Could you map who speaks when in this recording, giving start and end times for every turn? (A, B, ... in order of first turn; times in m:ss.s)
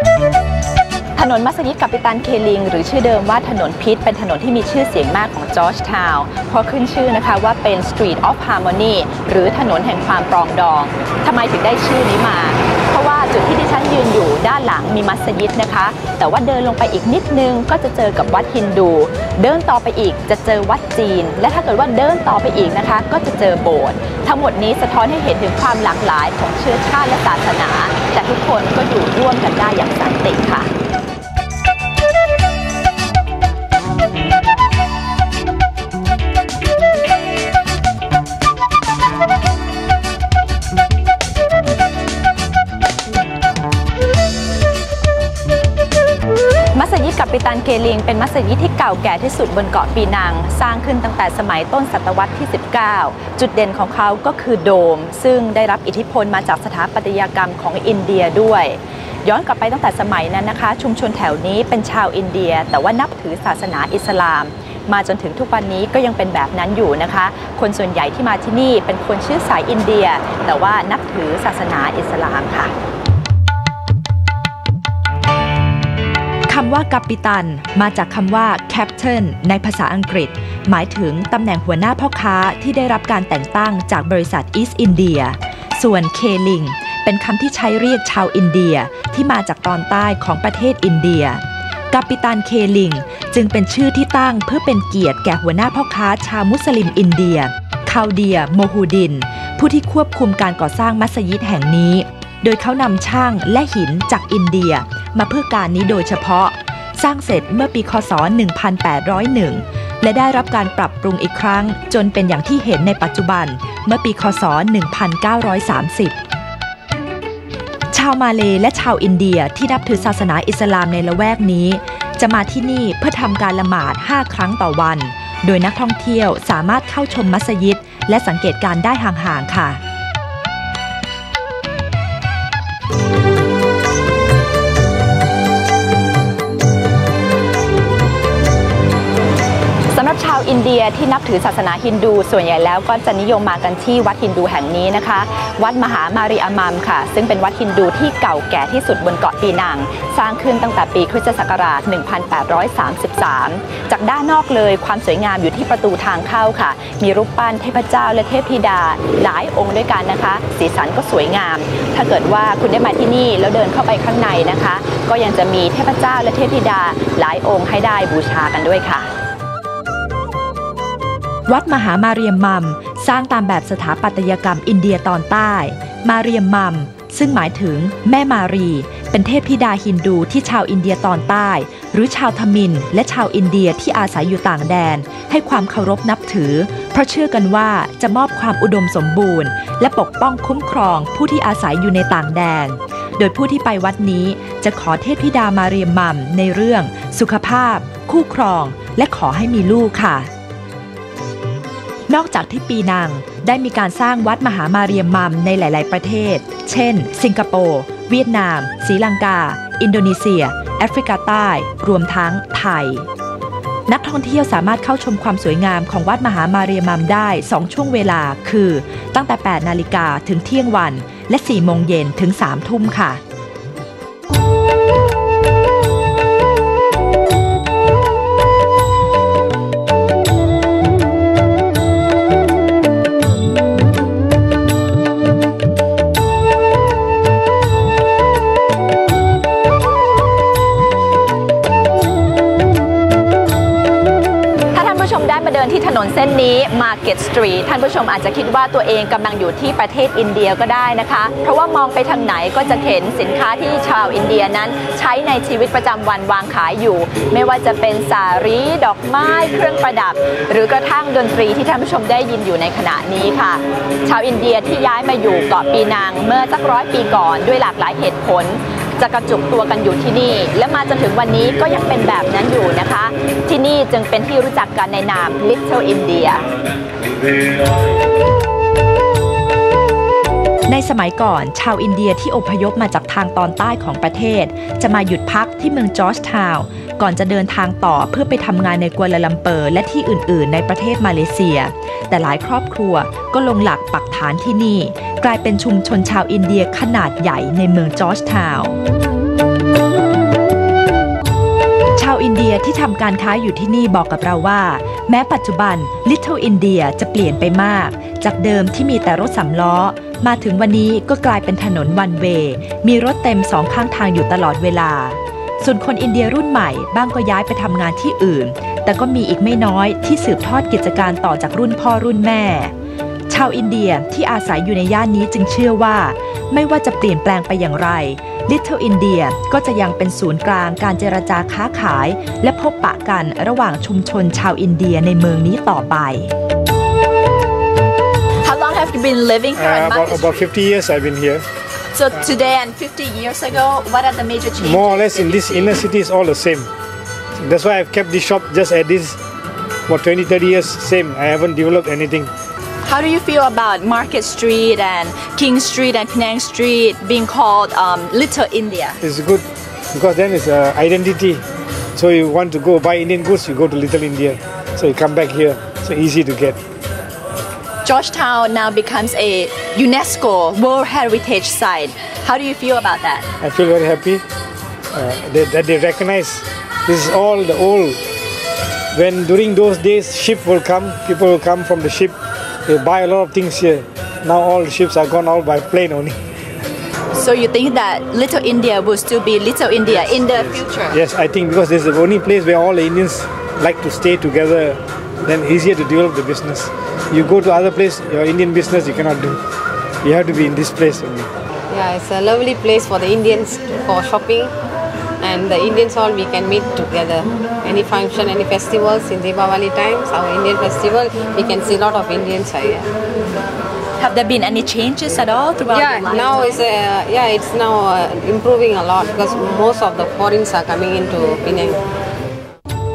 0:01.2-0:30.7 A
0:46.7-1:12.7 A
1:16.5-1:56.2 B
1:57.9-2:09.8 B
2:19.9-2:49.1 A
2:51.5-3:20.3 B
3:22.1-3:33.1 B
3:33.9-3:43.2 B
4:04.7-4:36.5 A
4:40.7-4:58.8 B
5:02.0-5:22.7 B
5:23.3-5:36.3 B
5:38.4-5:40.5 A
5:39.6-5:41.4 C
5:41.9-5:45.8 A
5:44.6-5:46.7 C
5:47.4-5:49.2 C
5:49.9-5:52.3 C
5:52.8-5:59.0 A
5:59.0-6:01.4 C
6:02.0-6:06.6 C
6:07.8-6:13.3 A
6:13.4-6:14.2 C
6:14.9-6:18.0 C
6:18.9-6:22.2 C
6:22.7-6:26.2 C
6:27.1-6:31.0 A
6:30.0-6:39.4 C
6:40.0-6:41.3 C
6:41.7-6:44.5 D
6:45.2-6:52.9 D
6:54.0-6:56.6 A
6:55.7-7:01.8 D